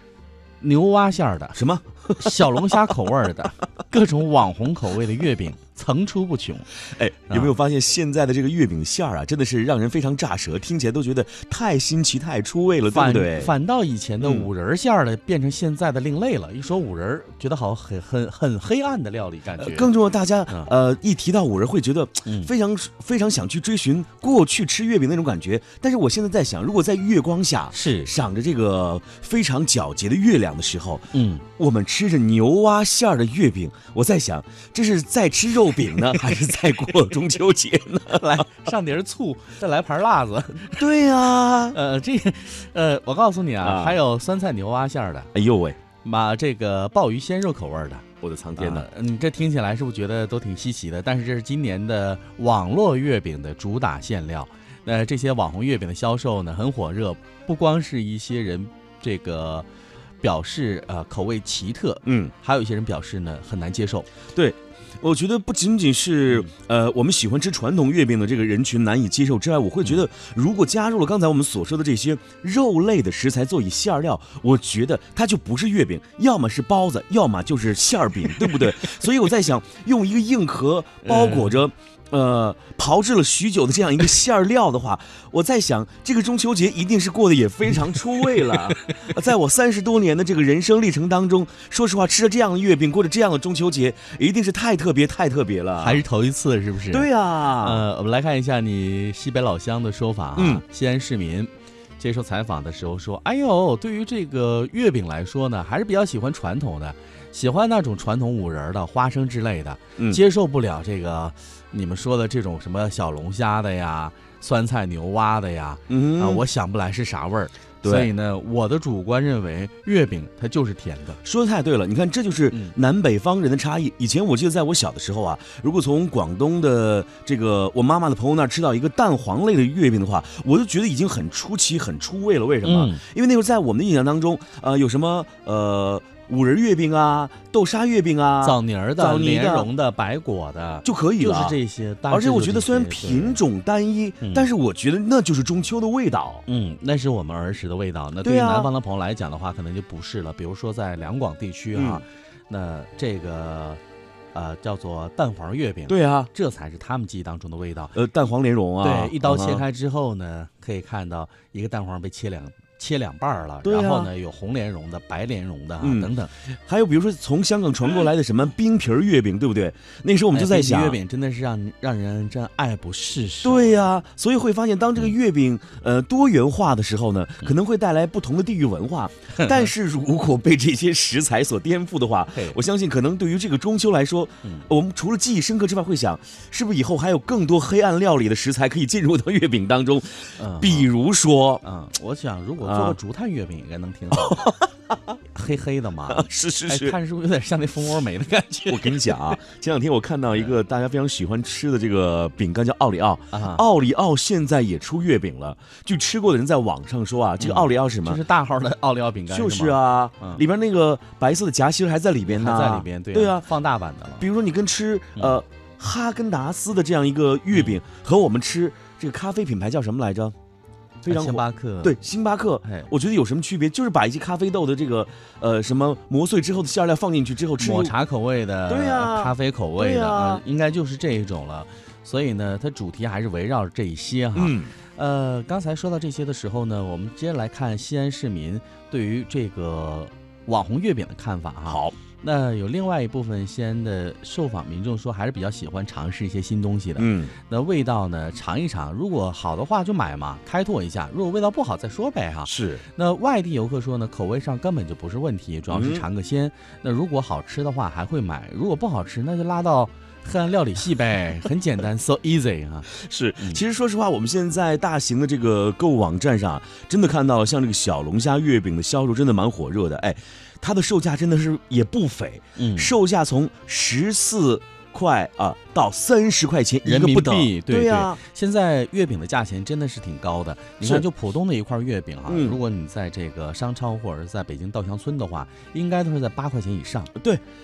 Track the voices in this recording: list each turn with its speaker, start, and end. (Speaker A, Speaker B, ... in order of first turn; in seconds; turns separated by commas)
Speaker A: 0.6-1.6, Speaker B: 1.5-2.8, Speaker A: 2.2-6.8, Speaker B: 6.9-13.5, Speaker A: 12.9-19.9, Speaker B: 14.2-14.5, Speaker B: 19.6-38.5, Speaker A: 22.2-22.5, Speaker A: 27.7-28.1, Speaker A: 31.1-31.4, Speaker A: 38.1-40.9, Speaker B: 40.8-41.8, Speaker A: 41.7-45.3, Speaker B: 43.6-44.0, Speaker B: 45.3-45.8, Speaker A: 46.0-48.0, Speaker B: 48.2-48.9, Speaker A: 48.6-59.7, Speaker A: 60.2-64.1, Speaker B: 62.0-62.3, Speaker B: 64.3-96.0, Speaker A: 81.0-81.6, Speaker A: 88.5-89.1, Speaker A: 95.8-121.2, Speaker B: 96.9-97.8, Speaker B: 100.4-100.6, Speaker B: 110.0-110.2, Speaker B: 115.9-116.4, Speaker B: 117.8-118.1, Speaker B: 121.2-139.7, Speaker A: 132.6-133.0, Speaker A: 138.4-143.4, Speaker B: 140.8-141.6, Speaker B: 142.1-146.4, Speaker A: 146.5-153.8, Speaker B: 148.2-148.7, Speaker B: 151.7-152.0, Speaker A: 154.3-158.0, Speaker B: 155.9-156.3, Speaker B: 157.9-159.7, Speaker A: 158.8-166.3, Speaker B: 163.6-164.1, Speaker B: 165.8-166.1, Speaker B: 166.7-171.0, Speaker A: 170.3-173.8, Speaker B: 173.4-191.6, Speaker A: 179.3-179.7, Speaker A: 182.3-182.6, Speaker A: 190.4-190.9, Speaker A: 191.6-194.5, Speaker B: 192.6-193.0, Speaker B: 194.2-194.7, Speaker A: 195.3-199.2, Speaker B: 196.1-196.9, Speaker B: 198.7-208.2, Speaker A: 203.3-203.6, Speaker A: 207.4-210.4, Speaker B: 209.3-213.5, Speaker A: 212.2-214.2, Speaker B: 214.2-220.3, Speaker A: 217.5-217.8, Speaker B: 221.0-227.9, Speaker A: 221.1-221.9, Speaker A: 222.6-222.9, Speaker A: 227.6-263.6, Speaker B: 228.7-230.4, Speaker B: 234.3-234.7, Speaker B: 241.7-241.9, Speaker B: 247.0-247.3, Speaker B: 252.4-252.8, Speaker B: 255.7-256.0, Speaker B: 262.9-278.2, Speaker A: 272.6-272.9, Speaker A: 276.8-287.1, Speaker B: 282.3-282.6, Speaker B: 287.1-287.4